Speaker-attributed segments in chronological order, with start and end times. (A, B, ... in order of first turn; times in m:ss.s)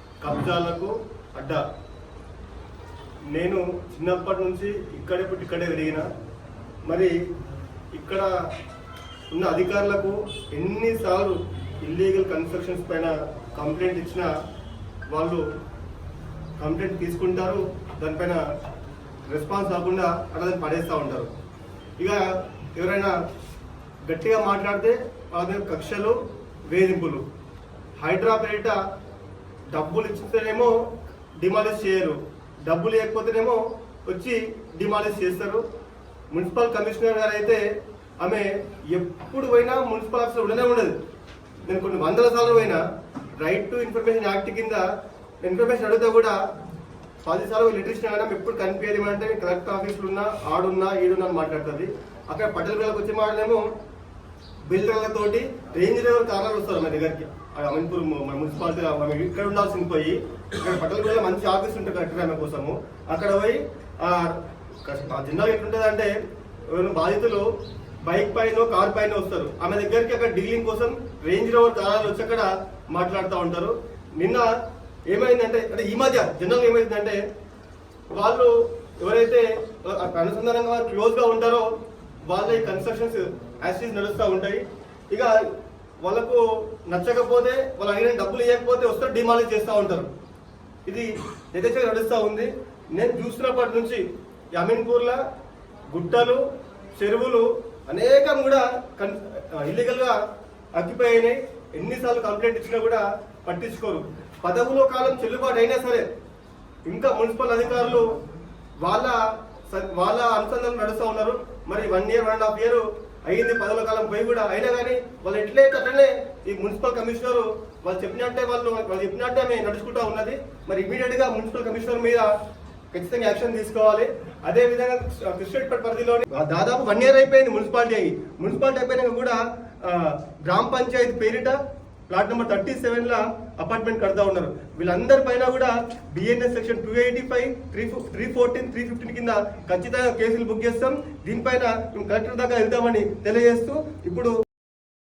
0:00.2-0:01.6 A
0:03.3-0:06.0 A
0:06.9-0:07.1 A
0:07.9-0:08.3 A
0:09.3-0:14.3 A
0:15.1-0:15.4 A
0:16.6-0:18.4 A
0:19.3-0:21.3 A
0:22.8-0:23.1 A
0:24.0-0:26.2 A
0:26.7-0:27.2 A
0:28.0-0:28.8 A
0:29.7-0:30.8 A
0:31.4-0:35.6 A
0:36.3-0:37.6 A
0:38.2-0:40.9 A
0:41.6-0:42.8 A
0:43.4-0:44.8 A
0:45.4-0:46.4 A
0:47.2-0:53.6 A
0:54.7-1:06.1 A
1:06.7-1:07.5 A
1:08.0-1:14.5 A
1:15.1-1:17.2 A
1:18.1-1:21.7 A
1:22.2-1:25.4 A
1:26.0-1:30.1 A
1:30.8-1:34.0 A
1:34.5-1:35.2 A
1:35.9-1:36.4 A
1:37.0-1:40.2 A
1:40.8-1:46.0 A
1:46.8-1:48.1 A
1:48.8-2:02.3 A
2:02.9-2:11.6 A
2:12.1-2:24.3 A